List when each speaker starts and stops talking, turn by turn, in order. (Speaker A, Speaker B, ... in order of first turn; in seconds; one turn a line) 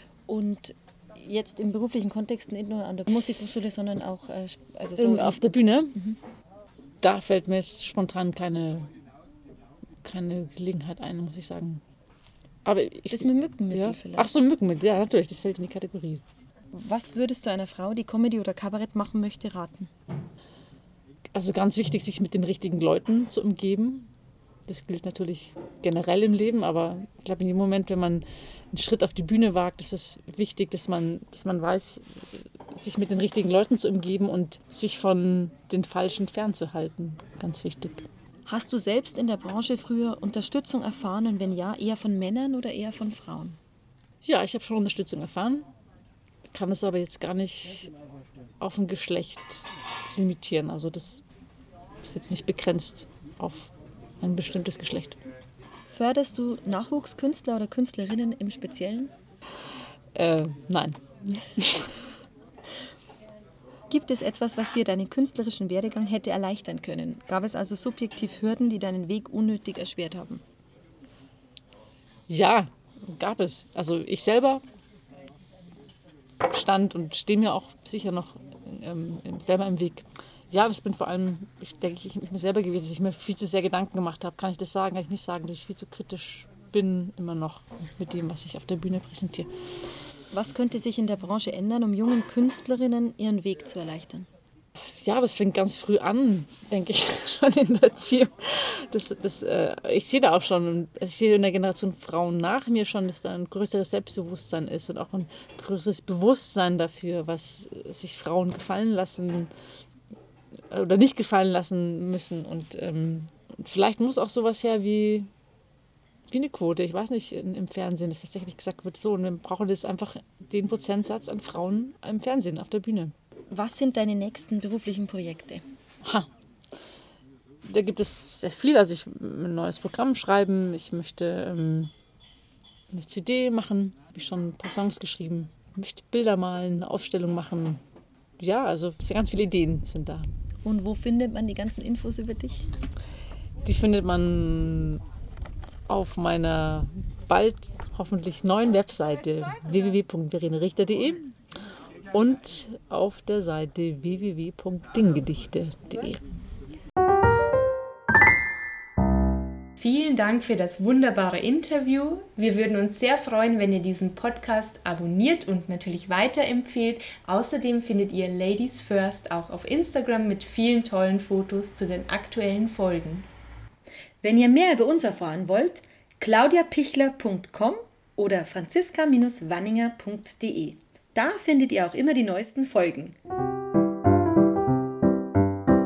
Speaker A: 0.3-5.4
Speaker B: 5.0-6.0
Speaker B: 7.0-8.9
Speaker B: 10.0-11.8
Speaker B: 12.6-16.2
Speaker A: 13.1-14.3
Speaker A: 16.7-19.9
Speaker B: 21.3-24.1
Speaker B: 24.7-38.0
Speaker A: 38.5-43.6
Speaker B: 44.2-45.6
Speaker B: 46.5-47.9
Speaker B: 48.6-51.2
Speaker B: 52.0-55.2
Speaker A: 55.9-59.1
Speaker B: 60.1-61.0
Speaker B: 61.5-61.9
Speaker A: 63.9-70.4
Speaker B: 72.3-74.6
Speaker B: 76.4-89.5
Speaker A: 90.3-94.3
Speaker B: 95.0-109.5
Speaker B: 110.7-115.3
Speaker B: 116.3-123.1
Speaker A: 123.5-125.6
Speaker B: 127.6-131.9
Speaker B: 132.9-137.8
Speaker B: 138.4-140.3
Speaker A: 140.6-142.7
Speaker B: 143.6-145.0
Speaker B: 145.9-151.3
Speaker B: 152.1-156.2
Speaker C: 159.8-173.2
Speaker A: 174.2-183.2